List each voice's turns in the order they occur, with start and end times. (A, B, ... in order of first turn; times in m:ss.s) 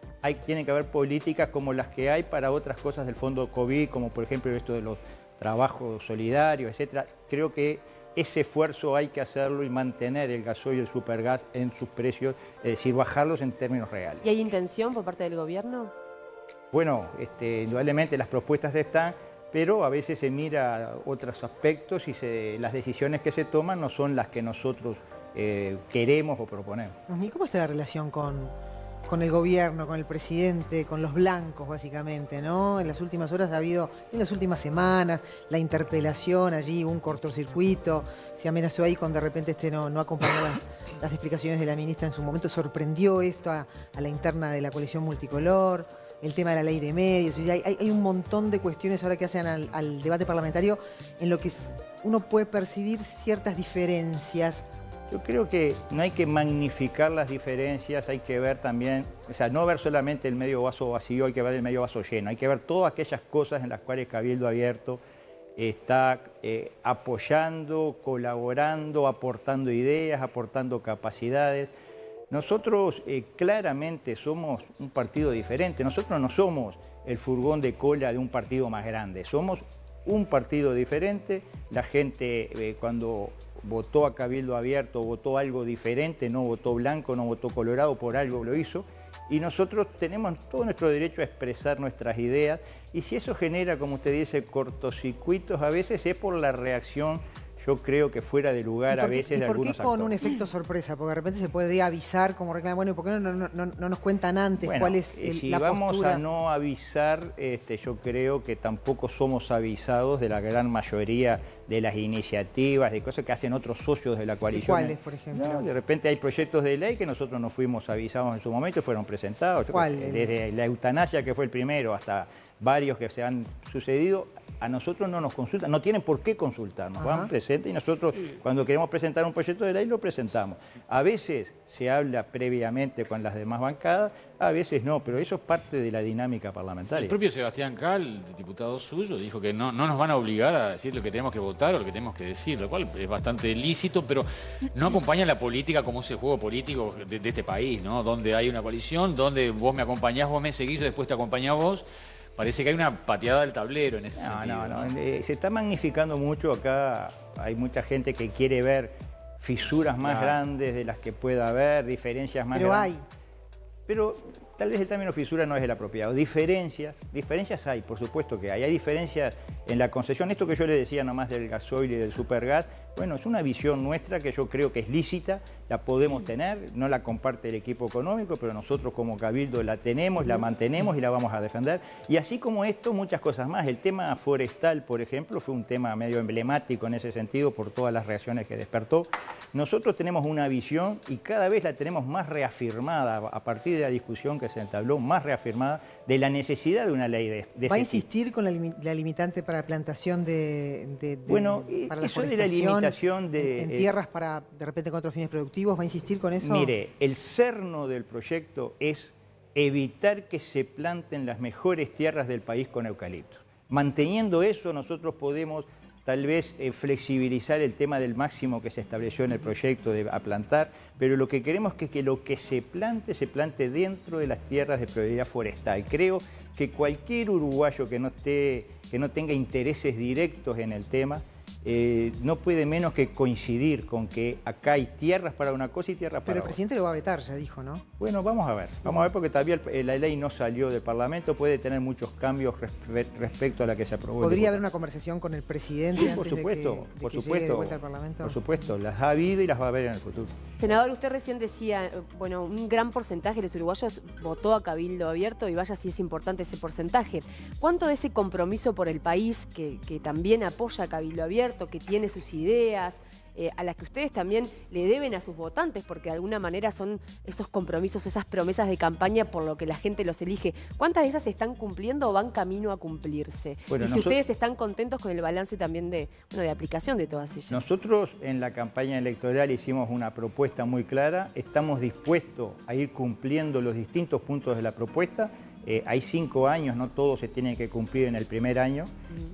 0:00.2-0:14.2 A
0:14.2-0:15.9 B
0:16.7-0:27.0 A
0:27.1-0:28.5 C
0:29.1-0:54.6 C
0:55.1-1:05.0 A
1:05.6-1:11.7 A
1:12.3-1:40.1 A
1:38.9-1:46.2 C
1:44.6-2:17.2 A
1:54.5-1:55.6 C
1:59.7-2:00.3 C
2:07.0-2:07.3 C
2:16.9-2:34.9 D
2:34.2-2:42.9 A
2:40.0-2:40.4 D
2:42.5-2:43.0 C
2:43.9-3:18.0 A
3:17.7-3:26.7 C
3:21.3-3:23.9 A
3:26.4-3:56.6 A
3:56.2-3:57.8 C
3:58.0-4:04.6 A
4:04.2-4:08.4 C
4:05.9-4:10.3 A
4:10.6-4:37.6 B
4:33.7-4:34.2 A
4:37.5-4:48.9 A